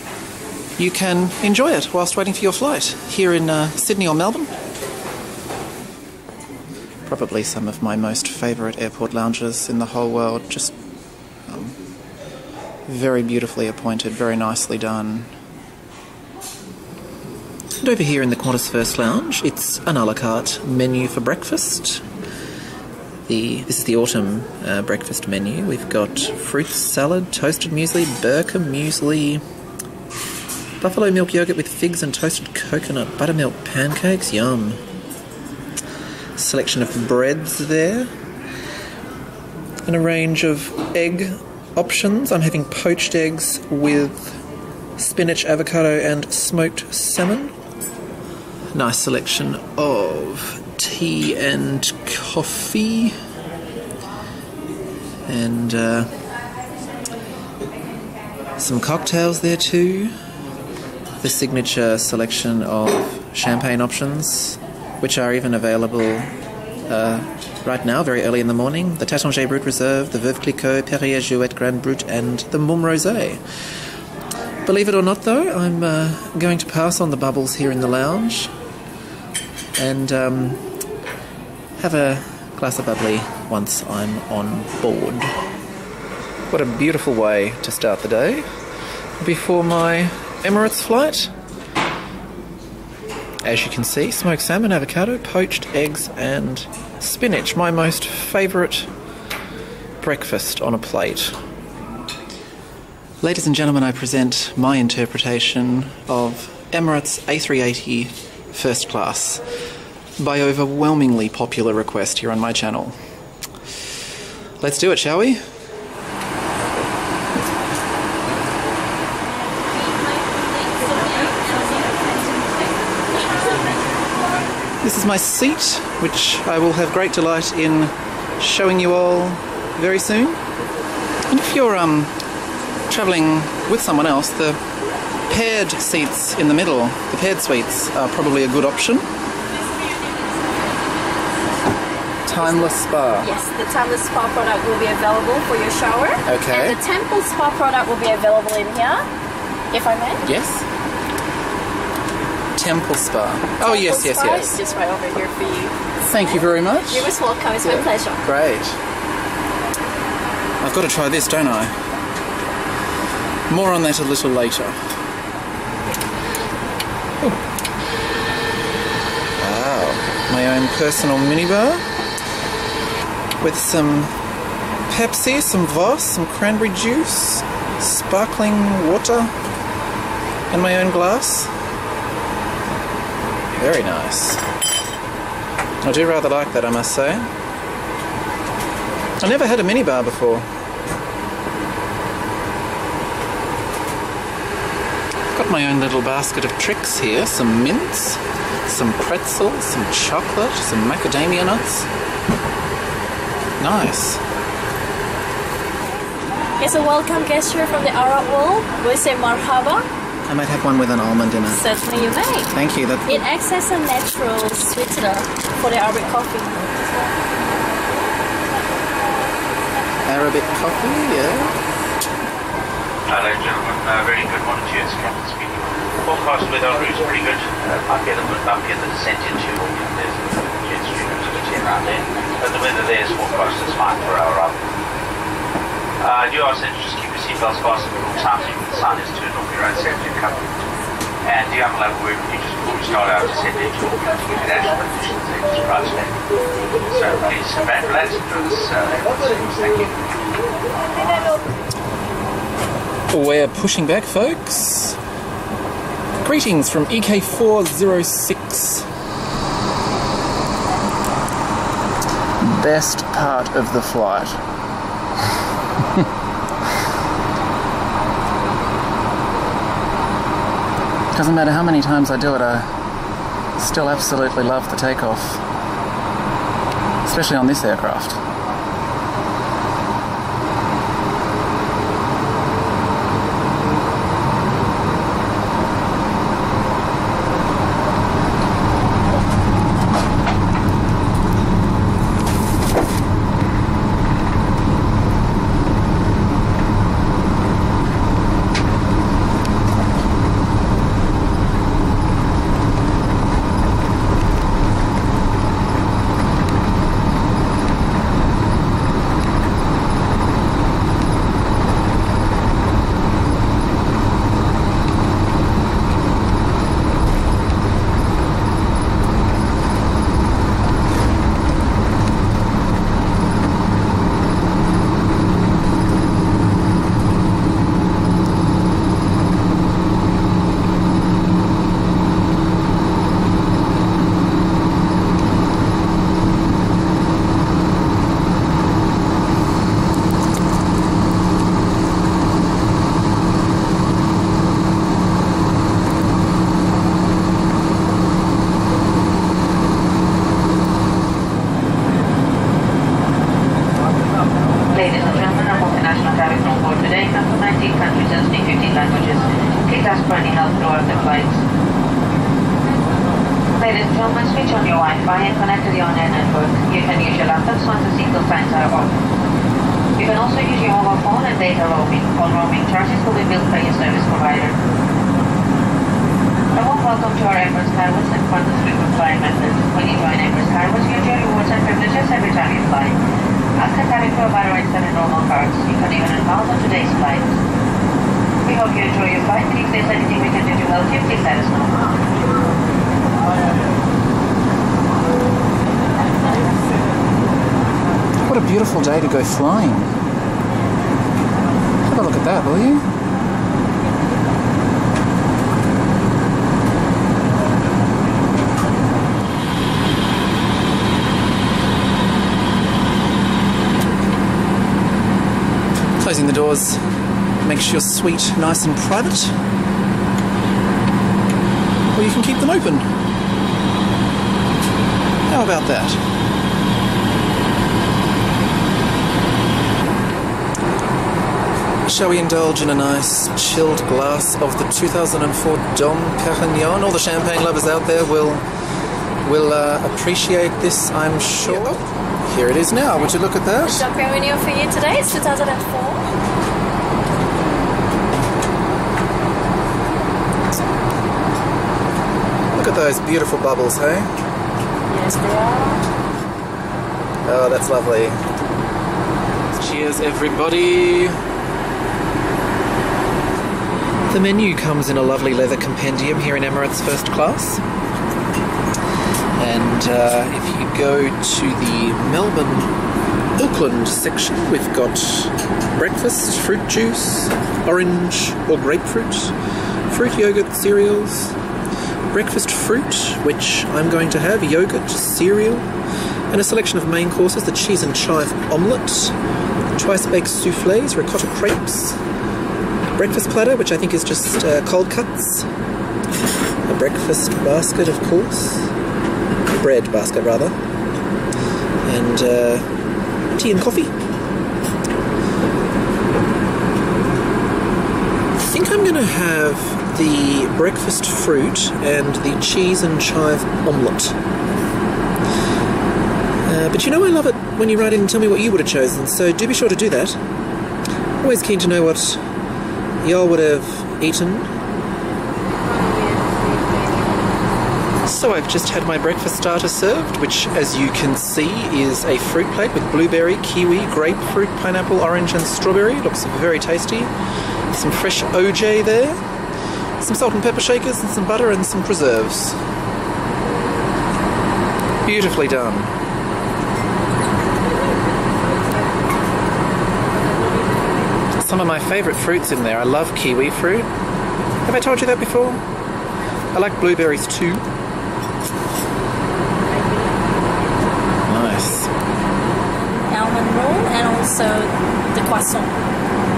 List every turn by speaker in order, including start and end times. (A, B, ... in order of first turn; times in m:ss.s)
0:00.8-0:04.5 A
0:07.0-0:10.7 A
0:11.5-0:11.8 A
0:12.9-0:15.3 A
0:17.8-0:22.0 A
0:23.3-0:29.4 A
0:30.8-0:34.8 A
0:36.4-0:38.1 A
0:39.8-0:44.4 A
0:45.0-0:47.5 A
0:48.7-0:53.2 A
0:55.3-0:56.1 A
0:58.6-1:00.1 A
1:01.2-1:06.3 A
1:06.8-1:13.4 A
1:14.6-1:18.5 A
1:19.8-1:20.7 A
1:21.8-1:25.3 A
1:26.5-1:28.4 A
1:29.2-1:31.3 A
1:33.4-1:38.9 A
1:40.0-1:41.4 A
1:43.2-1:49.4 A
1:50.2-1:52.9 A
1:54.6-1:55.4 A
2:00.6-2:02.3 B
2:04.8-2:10.4 A
2:11.3-2:12.1 A
2:12.9-2:14.6 A
2:15.3-2:19.1 A
2:22.3-2:23.3 A
2:23.2-2:29.0 B
2:26.2-2:26.8 A
2:29.7-2:30.2 B
2:30.2-2:30.6 A
2:32.6-2:34.5 A
2:33.6-2:38.2 B
2:36.0-2:37.1 A
2:37.6-2:38.8 A
2:40.6-2:41.7 A
2:43.5-2:44.8 A
2:49.4-2:51.8 A
2:53.4-2:54.1 A
2:54.9-2:59.3 A
3:00.5-3:01.5 A
3:03.6-3:04.4 A
3:05.8-3:07.3 A
3:09.2-3:10.5 A
3:15.3-3:21.9 A
3:23.6-3:24.2 A
3:26.6-3:29.8 B
3:30.3-3:31.6 A
3:31.5-3:32.5 B
3:32.5-3:33.2 A
3:33.0-3:36.7 B
3:40.0-3:41.6 A
3:43.1-3:54.6 C
3:56.0-4:00.4 C
4:01.2-4:06.2 C
4:06.8-4:10.0 C
4:13.1-4:15.0 A
4:16.2-4:18.9 A
4:22.4-4:24.4 A
4:31.1-4:32.7 A
4:33.6-4:35.4 A
4:37.0-4:38.2 A
5:54.7-6:01.4 D
6:03.6-6:08.9 D
6:10.0-6:14.6 D
6:16.5-6:23.0 D
6:23.6-6:27.4 D
6:28.4-6:31.9 D
6:38.2-6:39.9 A
6:41.8-6:42.8 A
6:56.0-6:56.8 A
6:57.4-6:59.3 A
7:01.9-7:02.9 A
7:05.3-7:06.0 A
7:11.8-7:18.4 A
7:19.2-7:23.8 A
7:23.6-7:26.0 B
7:32.5-7:34.1 A
7:34.9-7:35.8 B
7:37.2-7:38.2 A
7:39.5-7:41.2 A
7:44.1-7:47.6 A
7:49.4-7:52.7 A
7:53.4-7:59.3 A
7:59.9-8:01.4 A
8:02.1-8:05.7 A
8:06.3-8:09.2 A
8:09.8-8:12.0 A
8:12.9-8:15.5 A
8:16.6-8:18.7 A
8:19.5-8:20.5 A
8:21.8-8:22.7 A
8:23.3-8:23.9 A
8:28.3-8:34.2 A
8:36.4-8:40.2 A
8:41.2-8:42.2 A
8:43.0-8:44.5 A
8:45.6-8:47.2 B
8:48.0-8:57.1 A
8:57.7-8:59.2 A
9:00.0-9:02.6 A
9:05.0-9:05.9 A
9:11.3-9:13.9 A
9:14.6-9:15.6 A
9:16.5-9:17.6 A
9:21.2-9:21.9 A
9:23.1-9:25.7 B